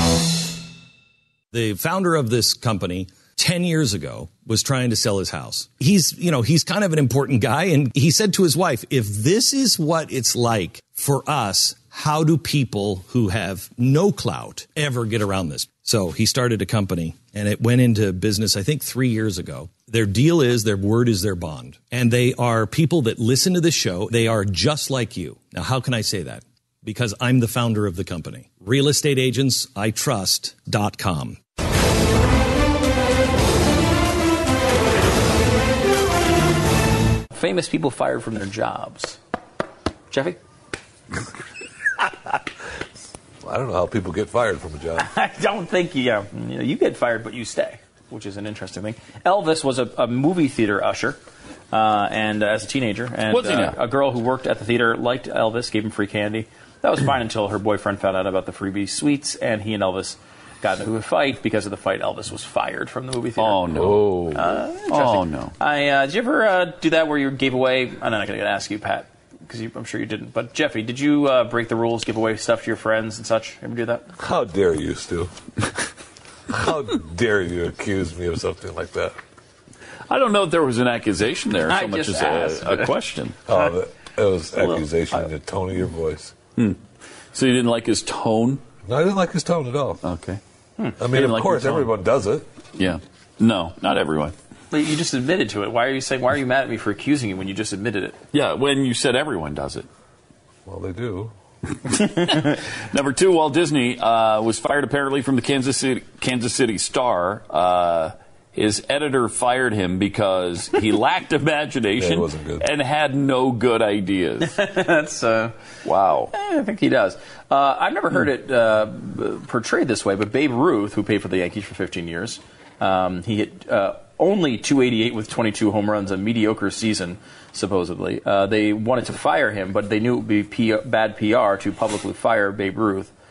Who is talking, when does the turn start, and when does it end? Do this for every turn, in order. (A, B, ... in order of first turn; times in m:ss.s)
0:01.5-0:31.4 A
0:37.3-0:39.2 B
0:40.1-0:40.4 B
0:43.4-0:45.1 C
0:45.0-0:51.2 B
0:51.7-1:14.1 B
0:53.3-0:53.8 D
1:03.4-1:05.5 D
1:03.8-1:04.5 C
1:14.2-1:15.3 C
1:16.5-1:19.2 C
1:20.1-1:23.4 D
1:21.7-1:23.0 B
1:23.5-1:26.3 C
1:24.6-1:25.2 D
1:27.3-1:28.6 D
1:28.9-1:30.0 C
1:30.0-1:30.4 D
1:31.0-1:32.5 C
1:31.0-1:31.9 D
1:32.8-1:34.4 D
1:34.7-1:38.2 B
1:38.3-1:39.9 D
1:40.7-1:41.3 C
1:41.9-1:54.6 D
1:52.0-1:52.7 C
1:54.4-1:55.6 B
1:55.8-1:56.3 D
1:56.3-2:13.1 B